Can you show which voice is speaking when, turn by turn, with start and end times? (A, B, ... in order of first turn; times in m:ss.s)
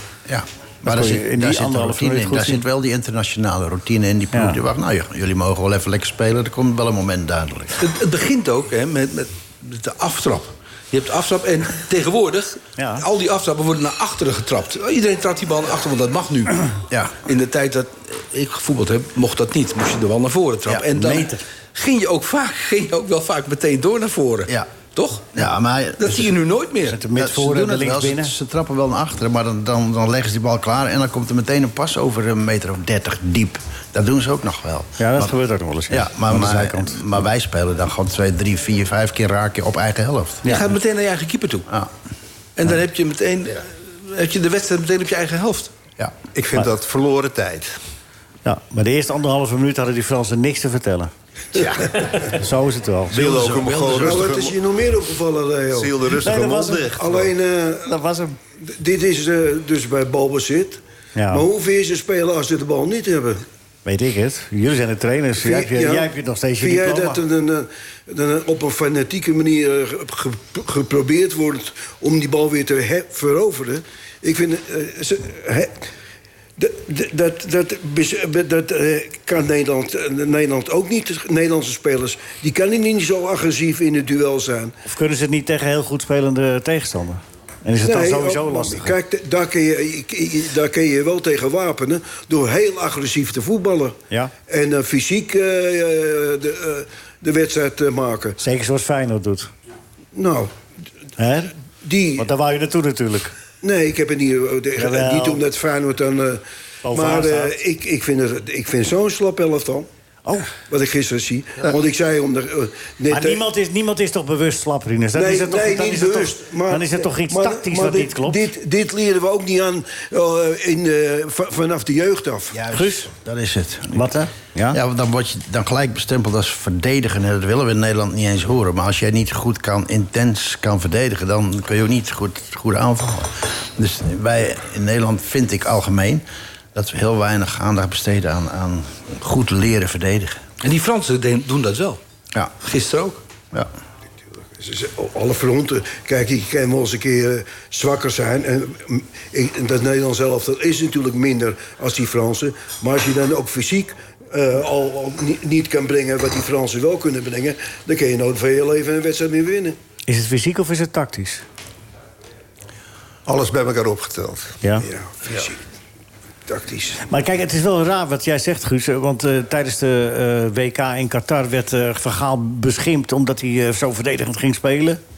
0:00.3-0:07.8 A
0:00.8-0:02.6 B
0:04.3-0:04.6 B
0:07.8-0:16.7 C
0:12.8-0:13.0 B
0:16.9-0:17.2 A
0:17.2-0:25.4 C
0:21.0-0:21.4 B
0:25.3-0:26.4 A
0:26.0-0:27.0 C
0:26.9-0:28.3 B
0:27.1-0:35.3 A
0:35.0-0:37.0 B
0:35.9-0:40.4 A
0:40.4-0:41.7 C
0:42.6-0:45.7 C
0:46.4-0:47.8 D
0:48.4-0:51.1 B
0:51.5-0:52.3 D
0:52.3-0:53.3 B
0:53.1-0:54.6 D
0:53.2-0:54.4 A
0:54.0-0:56.0 E
0:55.7-0:57.3 D
0:56.2-0:56.9 B
0:57.0-0:58.0 E
0:57.9-0:58.4 B
0:58.6-1:03.4 E
1:01.2-1:01.5 B
1:03.8-1:07.2 B
1:05.4-1:15.8 E
1:16.6-1:24.7 E
1:24.9-1:28.9 B
1:27.8-1:34.0 E
1:34.5-1:38.4 E
1:38.4-1:39.5 B
1:40.2-1:40.5 E
1:41.2-1:41.5 B
1:41.8-1:42.3 E
1:42.2-1:43.3 B
1:43.6-1:49.9 E
1:44.8-1:45.4 B
1:46.8-1:47.6 B
1:50.2-1:50.5 B
1:50.7-1:53.4 E
1:53.1-1:58.4 B
1:55.2-2:02.6 E
2:02.5-2:04.1 A
2:02.7-2:03.1 B
2:03.9-2:04.8 B
2:04.7-2:16.2 A
2:16.8-2:20.4 A
2:20.6-2:22.0 C
2:22.6-2:23.2 C
2:24.6-2:39.8 E
2:40.1-2:41.4 B
2:43.3-2:44.6 D
2:44.8-2:45.6 E
2:46.5-2:47.0 E
2:47.1-2:55.0 B